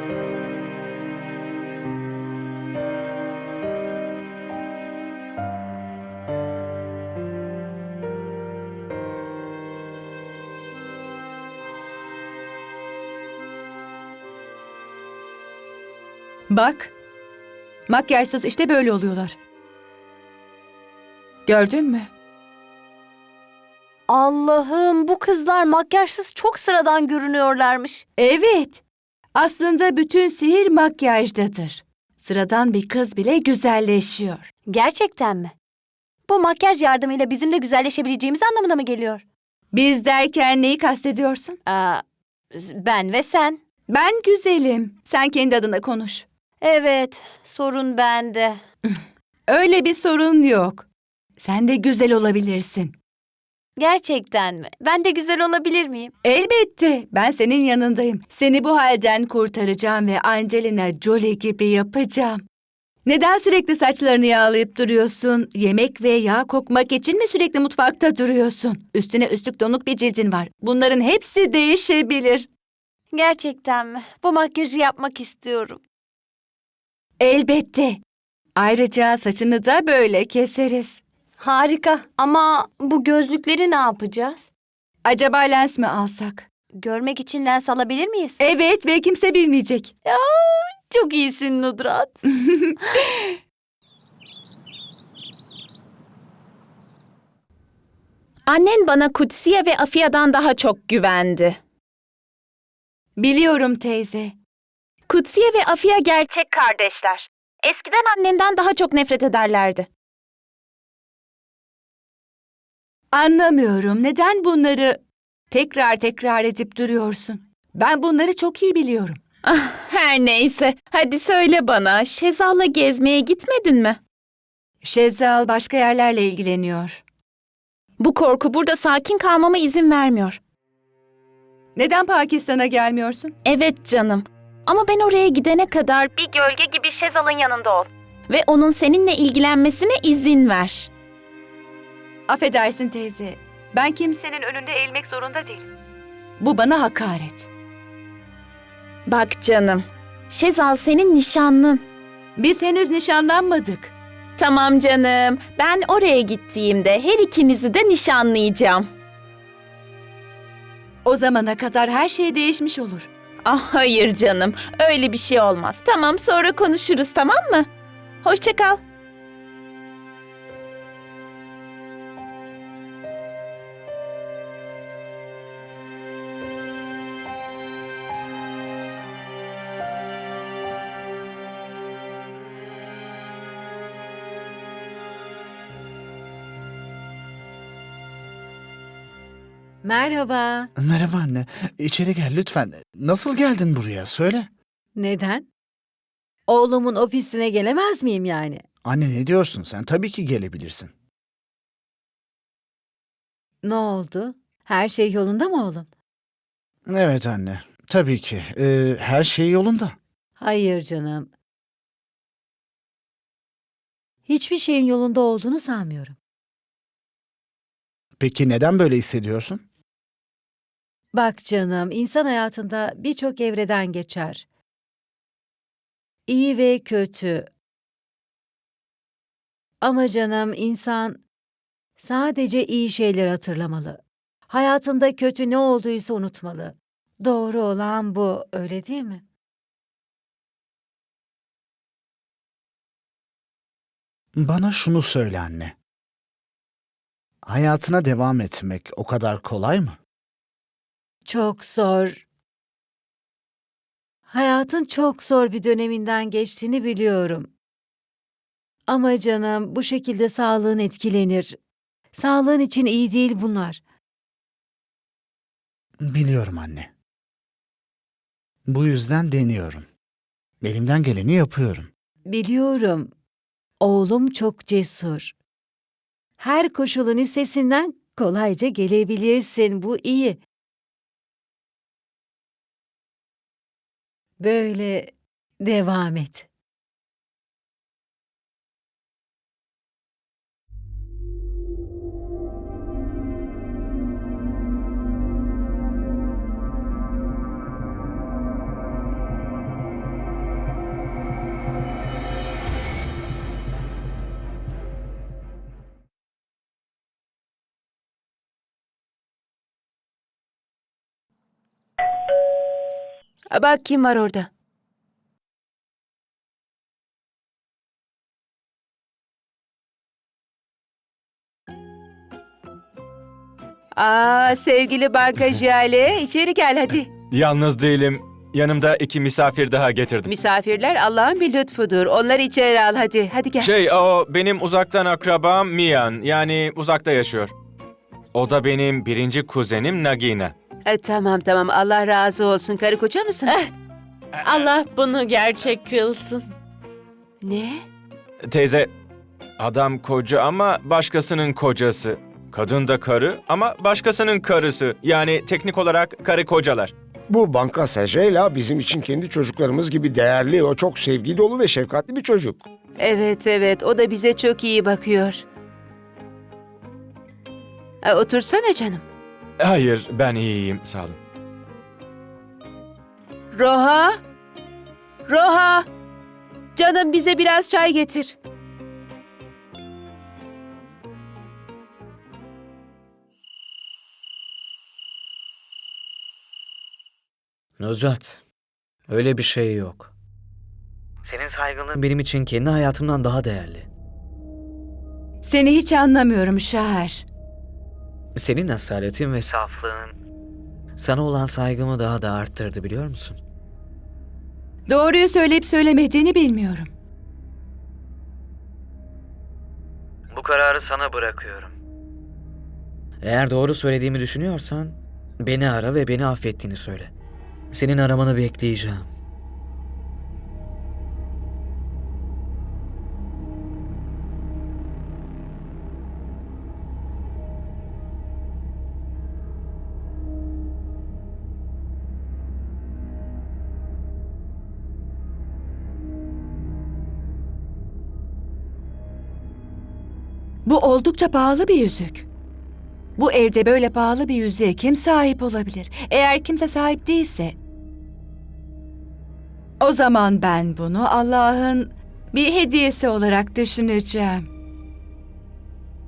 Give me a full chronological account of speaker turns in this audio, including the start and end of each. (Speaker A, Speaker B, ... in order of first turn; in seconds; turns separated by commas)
Speaker A: 16.5-16.9, Speaker A: 17.9-19.4, Speaker A: 21.4-22.1, Speaker B: 24.1-28.0, Speaker A: 28.2-28.8, Speaker A: 29.3-34.5, Speaker B: 34.6-35.5, Speaker B: 36.3-39.2, Speaker A: 39.7-41.6, Speaker B: 41.6-43.6, Speaker A: 43.9-46.2, Speaker B: 46.6-48.6, Speaker A: 49.5-50.9, Speaker A: 51.4-53.0, Speaker B: 53.8-56.1, Speaker A: 56.2-62.4, Speaker A: 63.0-72.5, Speaker B: 73.1-75.8, Speaker A: 77.2-78.0, Speaker A: 78.5-81.0, Speaker B: 81.4-84.5, Speaker A: 85.0-86.5, Speaker B: 86.8-88.4, Speaker A: 88.4-89.9, Speaker B: 90.0-92.2, Speaker A: 92.5-92.8, Speaker C: 98.5-101.6, Speaker A: 103.2-104.3, Speaker C: 105.1-109.9, Speaker A: 113.1-115.0, Speaker A: 115.5-119.2, Speaker C: 119.4-124.0, Speaker A: 124.8-127.0, Speaker C: 128.0-130.4, Speaker A: 131.8-133.3, Speaker C: 133.4-140.9, Speaker A: 142.3-145.7, Speaker A: 146.4-147.5, Speaker C: 149.1-151.8, Speaker A: 152.4-153.9, Speaker C: 154.4-158.8, Speaker A: 161.0-163.1, Speaker C: 163.4-167.7, Speaker C: 168.2-168.8, Speaker D: 189.8-190.7, Speaker E: 190.8-194.5, Speaker D: 194.9-195.5, Speaker D: 196.5-198.6, Speaker E: 198.8-200.9, Speaker D: 203.6-205.9, Speaker E: 206.9-209.9, Speaker D: 210.4-211.3, Speaker D: 214.2-216.2, Speaker E: 218.2-219.6, Speaker D: 221.1-224.4, Speaker D: 226.3-227.5, Speaker D: 229.8-231.2, Speaker D: 232.0-239.2, Speaker E: 244.3-245.7, Speaker E: 247.4-250.0, Speaker D: 251.2-252.2, Speaker D: 254.3-257.5, Speaker D: 258.9-261.6, Speaker D: 262.1-263.8, Speaker E: 266.0-266.9, Speaker E: 268.6-269.9, Speaker E: 270.6-271.9, Speaker D: 272.3-273.1, Speaker D: 273.8-275.3, Speaker D: 276.4-280.4, Speaker D: 284.4-286.5, Speaker F: 313.5-314.5, Speaker F: 324.0-326.9, Speaker G: 327.3-330.3, Speaker F: 330.2-333.7, Speaker G: 333.6-337.5, Speaker G: 338.3-340.5, Speaker F: 340.9-343.6, Speaker H: 344.4-346.4, Speaker F: 347.4-347.8, Speaker G: 348.4-348.9, Speaker G: 349.6-356.9, Speaker I: 357.3-362.6, Speaker F: 363.0-365.4, Speaker F: 368.0-369.0, Speaker G: 369.6-371.2, Speaker F: 373.5-374.1, Speaker F: 375.2-375.9, Speaker F: 376.8-378.3, Speaker J: 387.9-388.2, Speaker J: 389.2-390.1, Speaker J: 391.3-393.8, Speaker A: 395.4-397.2, Speaker J: 398.4-400.1, Speaker J: 401.0-403.4, Speaker A: 404.9-406.9, Speaker J: 410.4-411.6, Speaker J: 413.3-417.1, Speaker J: 417.7-419.0, Speaker A: 440.6-442.2, Speaker A: 443.2-447.6, Speaker A: 449.8-454.5